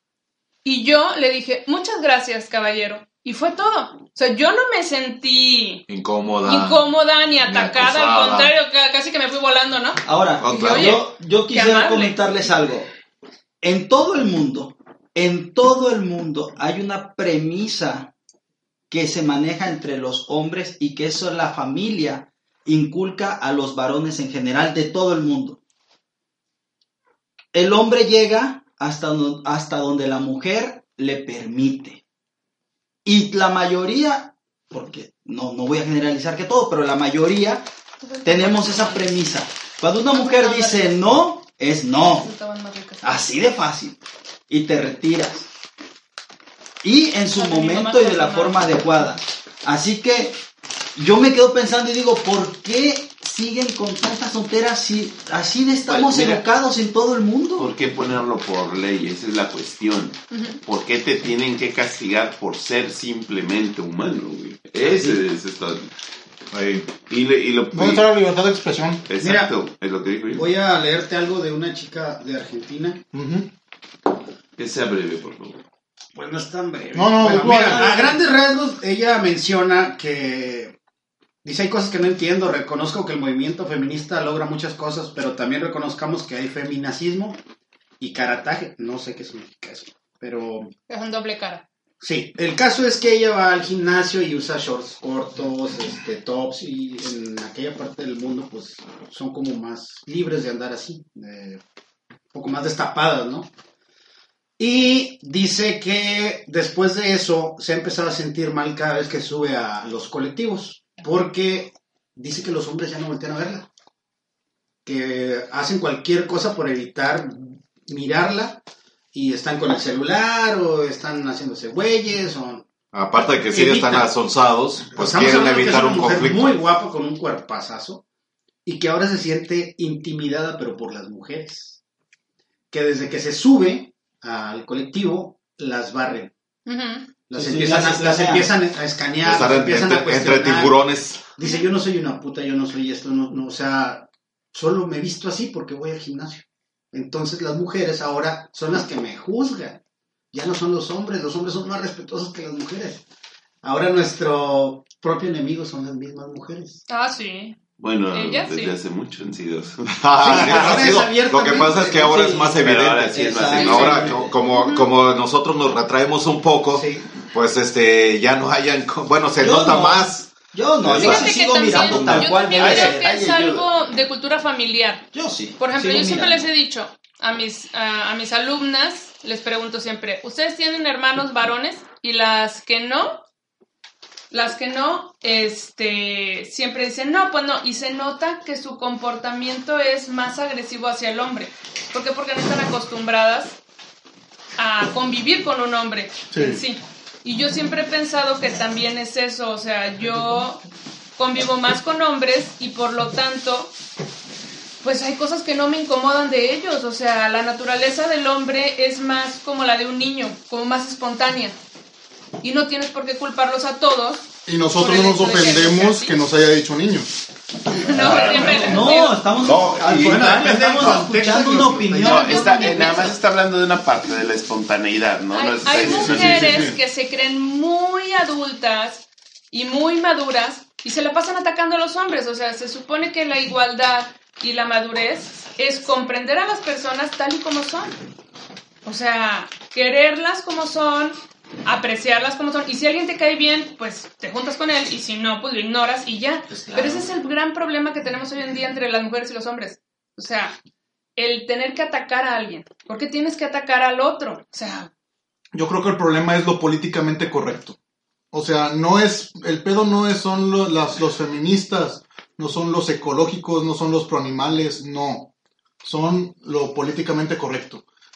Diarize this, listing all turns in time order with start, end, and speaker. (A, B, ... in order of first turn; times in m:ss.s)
0:00.6-0:05.8 A
0:05.9-0:06.8 B
0:06.4-0:12.2 A
0:07.4-0:08.5 B
0:10.0-0:12.9 C
0:10.4-0:11.0 B
0:13.6-0:18.1 C
0:18.9-0:25.6 C
0:27.5-0:32.0 C
0:33.0-0:37.7 C
0:38.0-0:39.2 A
0:38.2-0:42.3 C
0:40.1-0:41.0 A
0:42.1-0:43.2 A
0:43.0-0:44.0 C
0:44.5-0:45.4 C
0:46.8-0:50.4 C
0:47.4-0:48.7 A
0:51.0-0:57.7 C
0:55.9-0:56.4 D
0:57.6-1:05.9 D
1:06.5-1:06.9 B
1:07.1-1:08.1 D
1:07.7-1:09.1 E
1:09.1-1:10.5 D
1:09.2-1:09.5 F
1:10.3-1:13.0 F
1:13.1-1:13.5 E
1:14.6-1:15.6 D
1:16.1-1:20.7 F
1:16.9-1:18.1 E
1:17.4-1:17.8 C
1:21.4-1:27.4 F
1:28.0-1:30.7 F
1:30.9-1:31.6 A
1:32.0-1:41.6 F
1:42.3-1:43.5 F
1:44.6-1:53.7 F
1:54.8-1:58.6 F
1:59.1-2:02.6 F
2:02.9-2:06.6 B
2:03.5-2:04.1 F
2:04.9-2:08.0 F
2:08.6-2:11.8 F
2:12.7-2:16.3 F
2:16.6-2:17.0 A
2:17.3-2:20.7 F
2:17.3-2:18.5 C
2:19.2-2:21.2 B
2:21.4-2:29.8 F
2:30.3-2:33.0 F
2:33.6-2:36.8 F
2:36.9-2:37.6 A
2:37.8-2:40.9 D
2:38.1-2:38.7 A
2:40.0-2:50.3 B
2:40.2-2:42.2 F
2:41.9-2:42.6 C
2:42.5-2:44.3 D
2:43.1-2:44.3 C
2:43.5-2:43.9 A
2:44.5-2:44.9 A
2:46.7-2:47.0 F
2:49.4-2:53.1 C
2:50.8-2:51.3 B
2:51.0-2:55.0 A
2:51.7-2:53.7 D
2:55.1-2:56.4 C
2:55.6-3:03.2 A
3:04.3-3:13.6 A
3:14.6-3:20.6 A
3:16.3-3:16.6 E
3:21.2-3:23.7 A
3:24.8-3:31.6 A
3:32.4-3:36.2 A
3:34.4-3:37.1 E
3:37.8-3:39.2 A
3:37.9-3:38.7 D
3:37.9-3:38.8 B
3:38.0-3:43.1 C
3:39.4-3:40.1 B
3:39.8-3:42.5 F
3:40.1-3:42.1 E
3:42.0-3:46.7 D
3:42.2-3:43.1 A
3:45.3-3:57.9 A
3:45.7-3:46.8 E
3:58.8-4:10.5 A
4:06.5-4:07.1 B
4:11.2-4:14.9 A
4:15.5-4:17.8 E
4:18.3-4:25.3 E
4:25.8-4:27.8 E